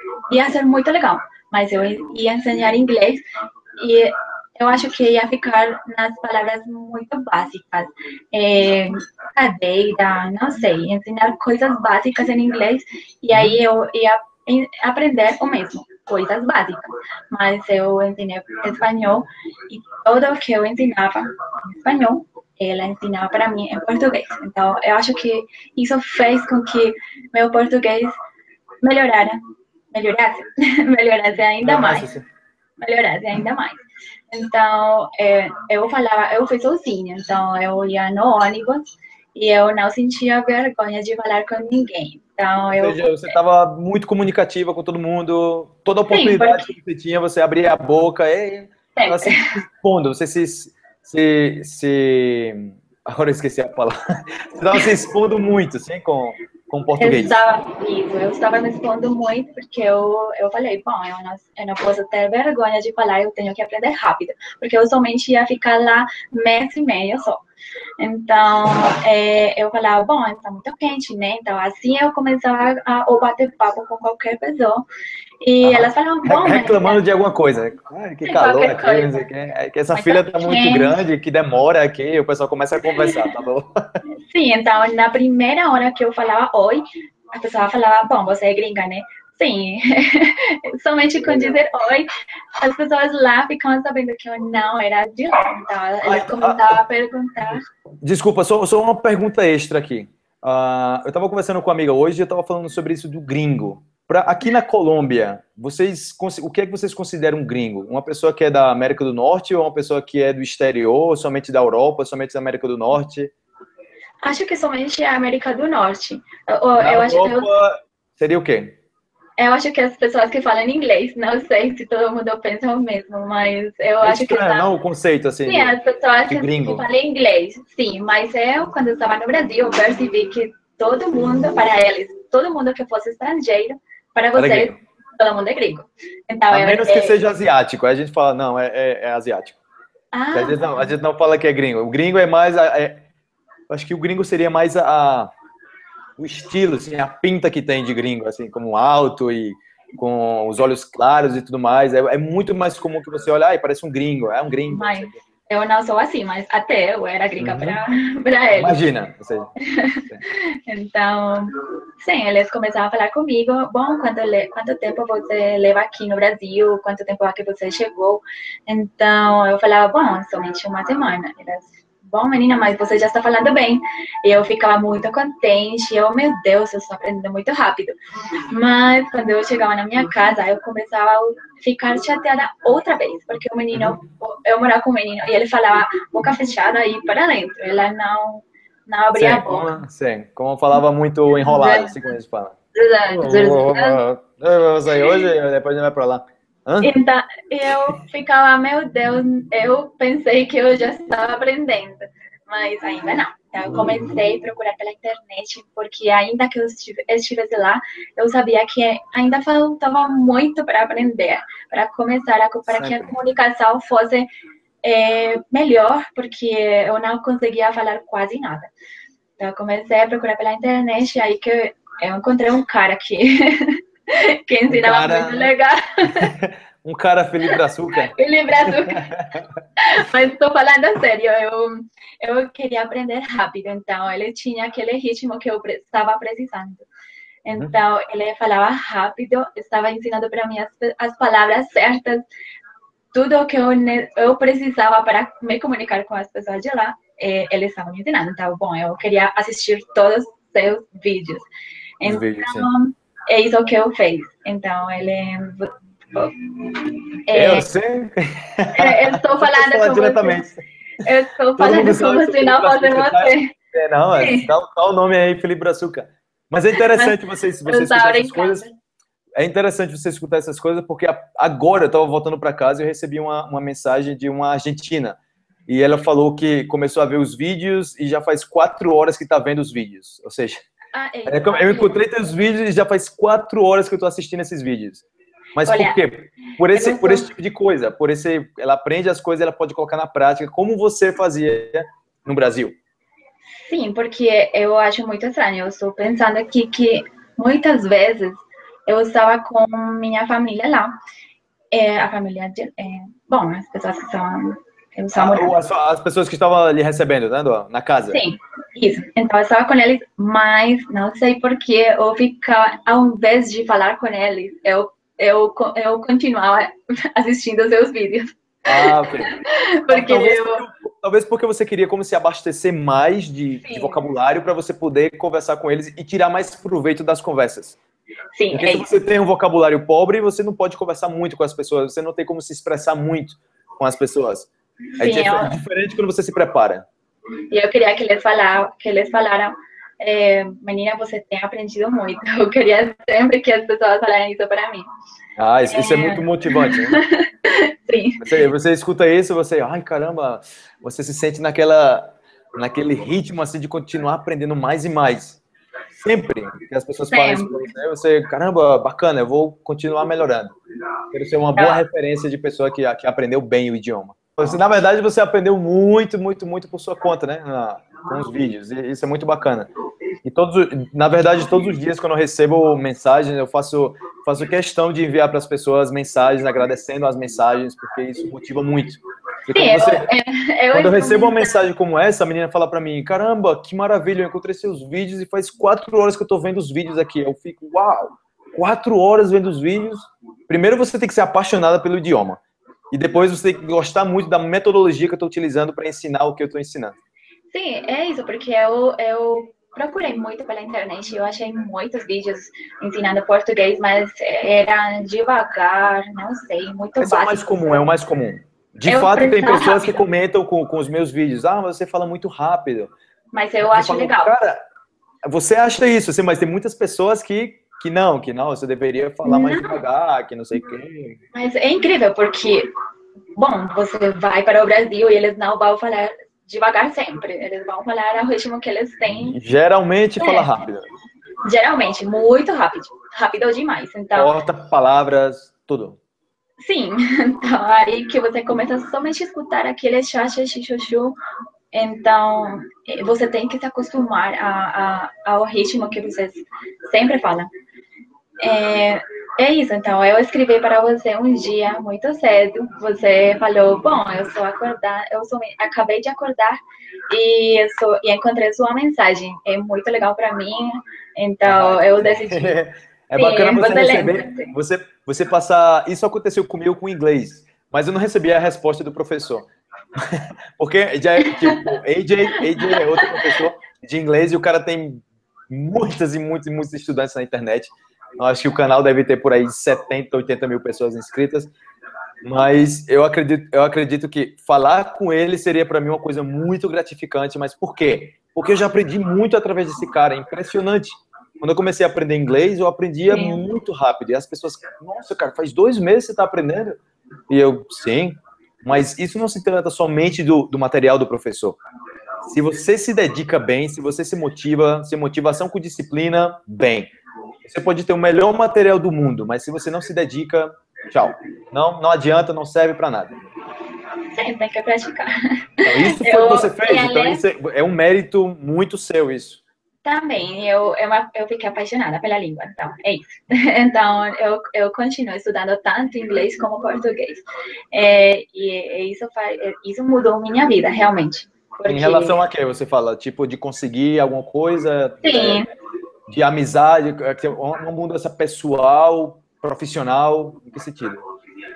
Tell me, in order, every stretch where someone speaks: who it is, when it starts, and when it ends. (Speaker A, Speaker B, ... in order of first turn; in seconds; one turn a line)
Speaker A: 0.3-3.2
Speaker A: 3.8-28.1
Speaker B: 13.3-13.6
Speaker A: 28.8-29.4
Speaker A: 29.9-32.1
Speaker B: 31.6-32.2
Speaker A: 32.8-43.4
Speaker B: 42.7-54.0
Speaker A: 46.1-46.7
Speaker A: 49.0-49.5
Speaker B: 54.5-57.4
Speaker A: 57.0-67.4
Speaker A: 68.0-74.9
Speaker A: 75.4-77.0
Speaker B: 75.6-83.7
Speaker A: 78.2-79.3
Speaker A: 79.9-81.0
Speaker A: 84.3-97.6
Speaker B: 91.2-91.6
Speaker B: 96.0-96.8
Speaker B: 98.0-113.3
Speaker A: 114.2-117.5
Speaker B: 116.8-118.8
Speaker A: 119.4-124.7
Speaker B: 124.0-125.7
Speaker A: 125.5-137.2
Speaker B: 126.3-126.8
Speaker B: 134.3-134.7
Speaker B: 136.5-139.6
Speaker A: 140.1-140.9
Speaker B: 140.3-143.1
Speaker B: 143.7-145.3
Speaker B: 146.2-155.2
Speaker A: 154.7-158.8
Speaker B: 157.4-157.8
Speaker B: 158.5-159.5
Speaker A: 159.6-177.9
Speaker A: 178.5-189.8
Speaker B: 183.7-184.0
Speaker B: 189.1-192.5
Speaker A: 191.4-192.0
Speaker A: 192.7-194.0
Speaker B: 193.1-196.9
Speaker A: 194.9-195.2
Speaker A: 196.8-214.3
Speaker B: 212.7-213.2
Speaker A: 214.8-218.7
Speaker A: 219.4-226.3
Speaker B: 224.7-225.5
Speaker B: 226.1-229.6
Speaker A: 227.5-229.1
Speaker A: 229.8-236.8
Speaker A: 237.4-242.2
Speaker A: 243.1-251.5
Speaker A: 252.0-257.7
Speaker B: 252.0-252.7
Speaker B: 257.3-260.6
Speaker A: 258.8-260.5
Speaker A: 261.0-263.5
Speaker B: 261.6-268.7
Speaker A: 264.2-264.5
Speaker A: 266.8-267.1
Speaker A: 267.6-268.7
Speaker B: 269.4-280.6
Speaker A: 280.9-282.0
Speaker B: 281.2-285.0
Speaker B: 285.6-292.8
Speaker A: 285.6-286.0
Speaker A: 286.7-287.3
Speaker A: 293.5-300.9
Speaker A: 301.7-305.5
Speaker B: 305.1-308.2
Speaker A: 308.1-320.6
Speaker B: 318.7-319.3
Speaker B: 319.9-327.8
Speaker A: 323.6-324.0
Speaker A: 328.4-328.9
Speaker B: 328.5-334.5
Speaker B: 335.0-336.9
Speaker A: 335.0-335.5
Speaker A: 337.5-344.9
Speaker B: 345.4-347.0
Speaker A: 345.7-348.4
Speaker B: 348.2-355.4
Speaker B: 356.0-360.6
Speaker A: 357.1-357.7
Speaker B: 361.1-369.7
Speaker A: 361.6-361.8
Speaker B: 370.2-380.1
Speaker A: 379.5-381.6
Speaker B: 380.7-396.9
Speaker A: 397.5-407.4
Speaker B: 407.0-412.9
Speaker A: 408.9-410.0
Speaker A: 413.3-414.3
Speaker B: 413.7-414.6
Speaker B: 415.2-421.2
Speaker A: 419.2-419.8
Speaker A: 421.3-422.7
Speaker A: 423.4-429.4
Speaker B: 429.1-430.9
Speaker A: 430.2-430.6
Speaker A: 431.4-434.4
Speaker B: 434.1-436.0
Speaker A: 436.6-441.2
Speaker A: 441.7-447.5
Speaker A: 448.4-456.6
Speaker A: 457.1-462.6
Speaker B: 461.4-481.5
Speaker A: 463.1-464.5
Speaker A: 471.2-471.6
Speaker A: 472.4-473.3
Speaker B: 482.2-496.8
Speaker A: 493.1-493.4
Speaker B: 497.3-501.6
Speaker B: 502.2-506.9
Speaker B: 507.4-513.1
Speaker A: 514.1-517.2
Speaker B: 515.6-519.4
Speaker A: 519.8-527.2
Speaker A: 527.7-532.2
Speaker B: 531.7-535.5
Speaker A: 535.0-535.5
Speaker B: 536.1-541.0